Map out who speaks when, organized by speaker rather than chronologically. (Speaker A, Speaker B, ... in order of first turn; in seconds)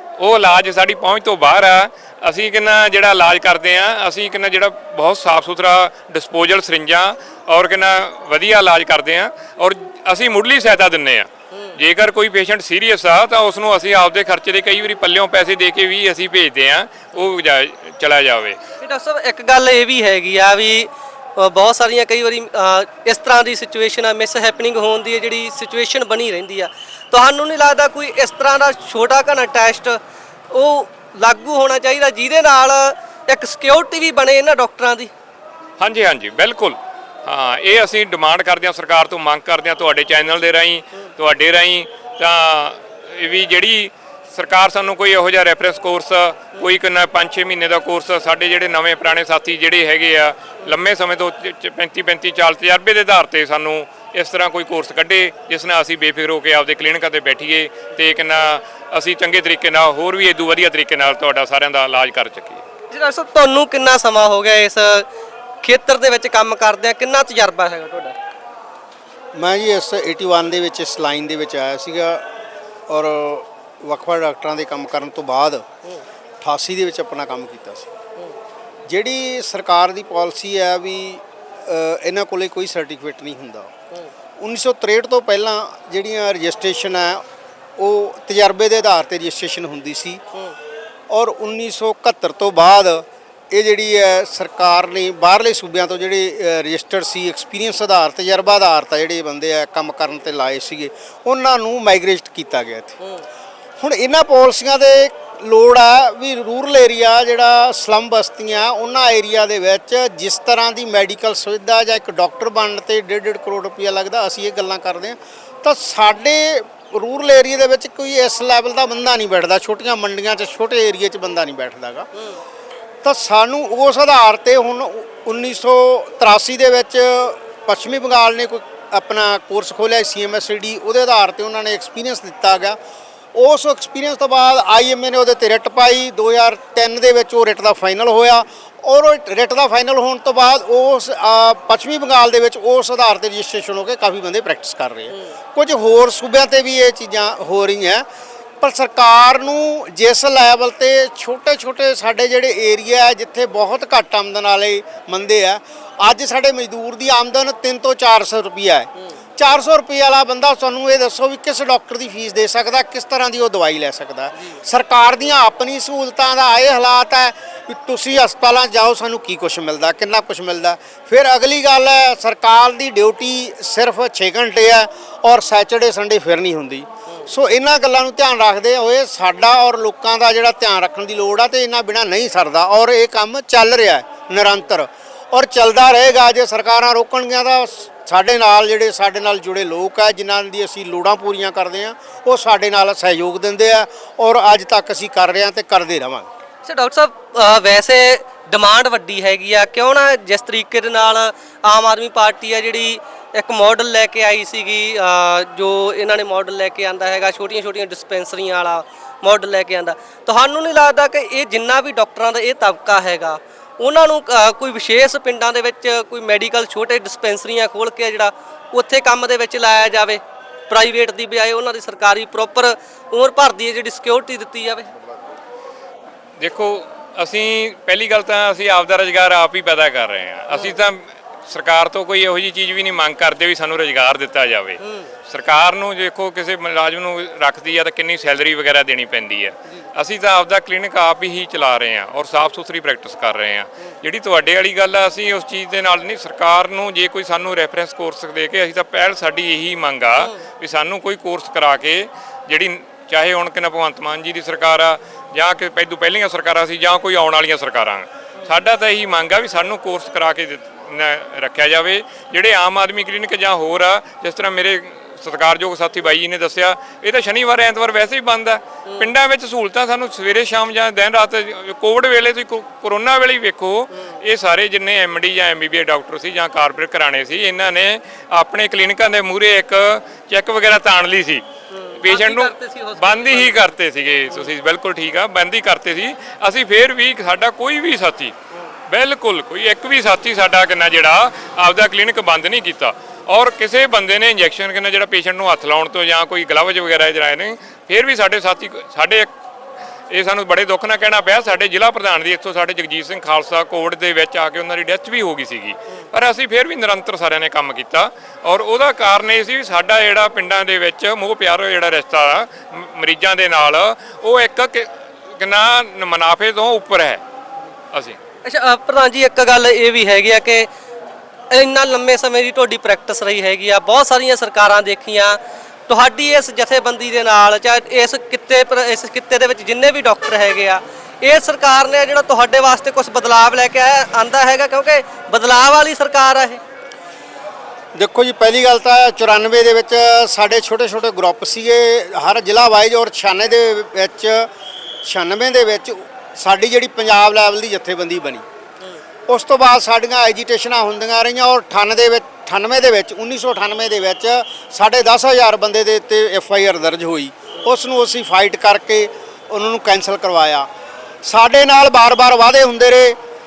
Speaker A: 0.2-18.6, 35.8-62.6, 226.4-281.4, 282.0-288.4, 288.9-299.3, 300.1-317.2, 317.9-318.2
Speaker B: 18.8-30.0, 30.5-35.1, 62.9-65.1, 65.6-68.2, 122.2-122.4, 145.1-145.4, 196.7-224.9, 230.5-230.8, 234.8-235.1, 268.9-269.1, 281.7-283.7, 318.4-320.7, 321.5-336.6
Speaker C: 69.3-72.2, 72.9-75.7, 76.4-77.9, 78.9-83.7, 84.4-87.2, 87.8-90.2, 91.1-103.0, 103.8-122.1, 123.0-132.8, 133.3-148.1, 148.6-196.3, 337.9-344.5, 345.0-348.4, 349.3-360.7, 361.2-363.2